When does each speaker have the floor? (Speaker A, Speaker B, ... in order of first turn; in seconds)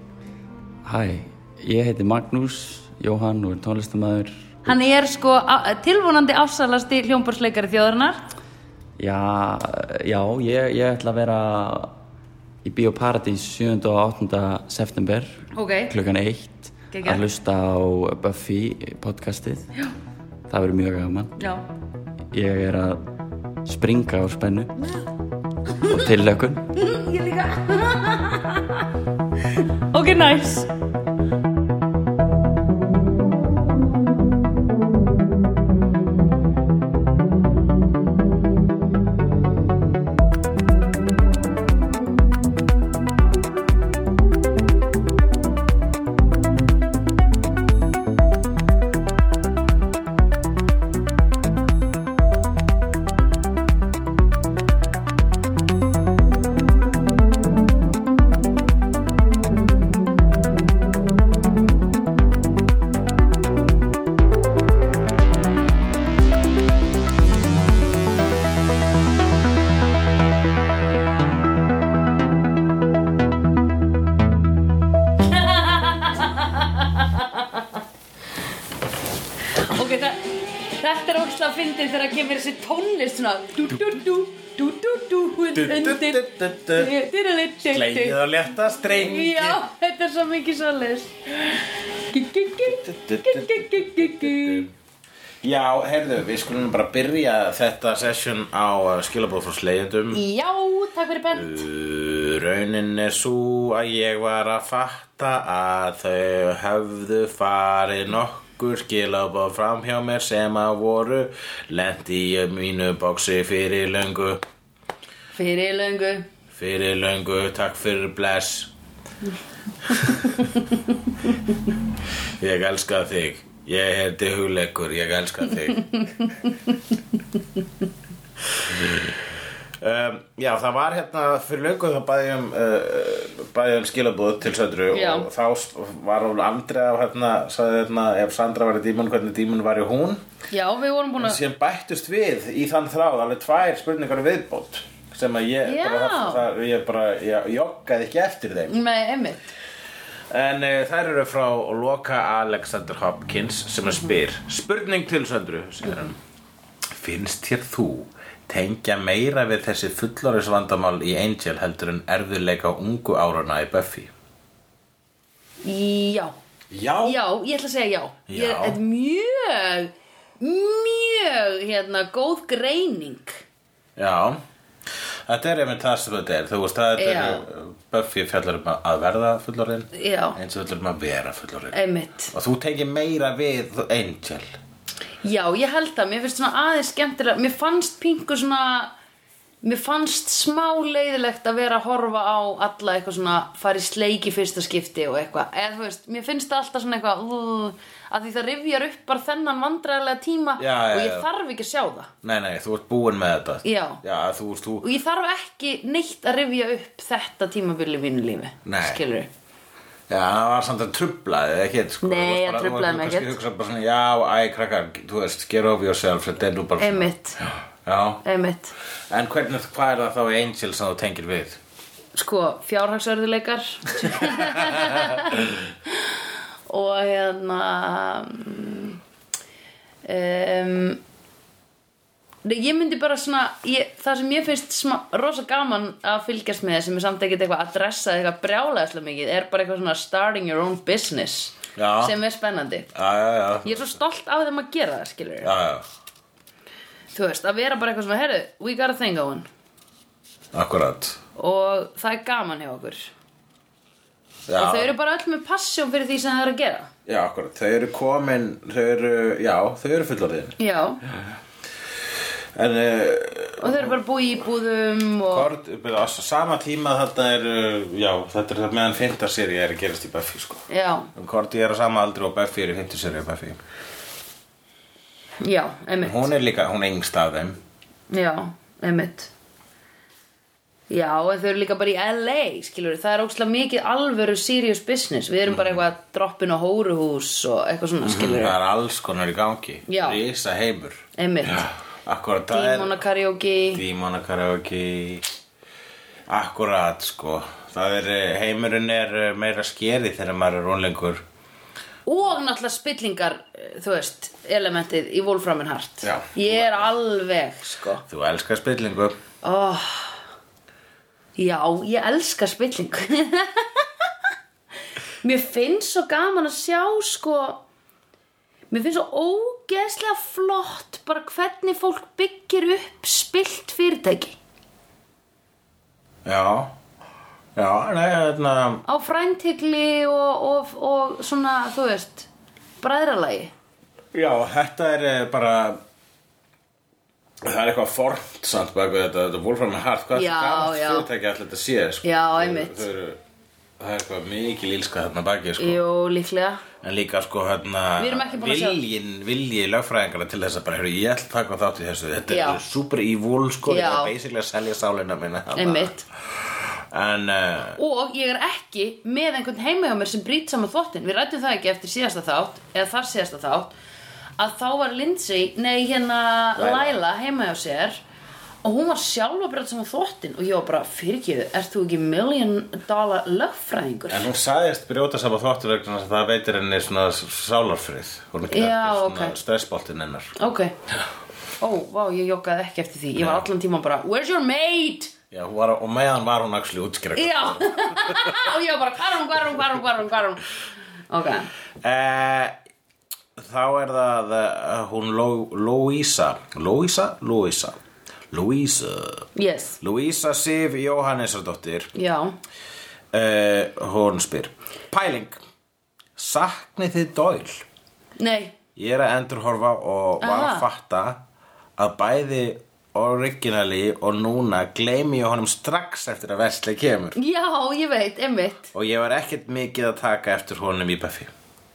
Speaker A: 0.8-4.5, 9.0-11.9, 12.6-19.7, 20.5-21.4, 22.3-23.0, 23.7-24.7, 25.9-26.7
Speaker B: 4.7-8.2, 15.5-15.9, 16.9-17.2, 21.4-21.6, 26.8-28.8, 29.9-30.7, 75.3-77.5, 79.6-88.2, 88.9-94.7, 100.1-101.7, 115.3-116.3, 126.0-126.3, 134.9-135.3, 140.5-141.4, 145.7-146.4, 148.7-149.4, 165.6-166.3, 167.0-173.4, 177.0-177.4, 179.9-180.4, 181.7-182.3, 185.2-188.9, 189.6-202.1, 203.6-204.0, 204.8-209.3, 212.0-213.4, 216.8-217.4, 218.2-218.8, 222.2-229.0, 230.1-231.0, 232.4-242.9, 243.6-245.5, 247.1-249.5, 251.4-253.1, 254.6-256.9, 260.6-261.0, 263.6-265.5, 270.7-271.1, 275.4-276.3, 278.1-279.3, 280.9-288.6, 289.9-290.2, 291.2-291.7, 292.5-293.8, 302.1-308.0, 309.4-310.2, 311.4-313.9, 315.2-317.6, 318.7-324.4, 328.9-332.3, 332.8-333.5, 340.1-341.1, 342.0-342.9, 345.6-346.6, 348.0-348.8, 352.3-352.6, 353.7-354.1, 355.6-356.0, 357.8-363.7, 364.4-368.0, 368.6-374.3, 378.5-379.4, 380.4-380.8, 381.6-385.1, 387.1-390.5, 391.1-391.5, 399.4-399.8, 401.9-402.4, 408.2-408.6, 410.2-410.7, 417.1-418.7
Speaker C: 85.5-87.0, 87.7-89.6, 92.6-94.7, 95.4-100.2, 101.3-114.4, 116.5-118.7, 122.4-126.1, 128.6-129.2, 129.8-140.2, 141.2-148.8, 150.3-156.2, 156.9-164.1, 166.7-167.2, 168.3-168.8, 174.0-174.4, 175.3-181.8, 182.3-184.5, 200.6-201.3, 202.2-204.9, 208.7-209.0, 210.1-217.1, 217.8-218.2, 219.1-221.6, 224.2-225.1, 241.8-242.2, 242.9-243.9, 245.4-245.8, 250.5-251.2, 254.5-254.9, 257.1-260.6, 262.6-264.0, 265.3-273.6, 276.0-277.6, 285.5-285.8, 288.0-293.0, 293.7-295.3, 296.3-301.2, 306.0-306.9, 308.1-309.2, 326.2-326.7, 327.6-328.8, 334.1-335.8, 337.4-343.2, 343.8-345.8, 346.8-357.8, 366.6-367.0, 374.1-380.4, 383.2-383.5, 385.3-388.5, 391.8-392.6, 393.4-397.8, 398.3-399.3, 399.8-401.9, 403.1-405.4, 406.2-407.6, 408.8-411.2, 411.8-417.2, 418.7-421.3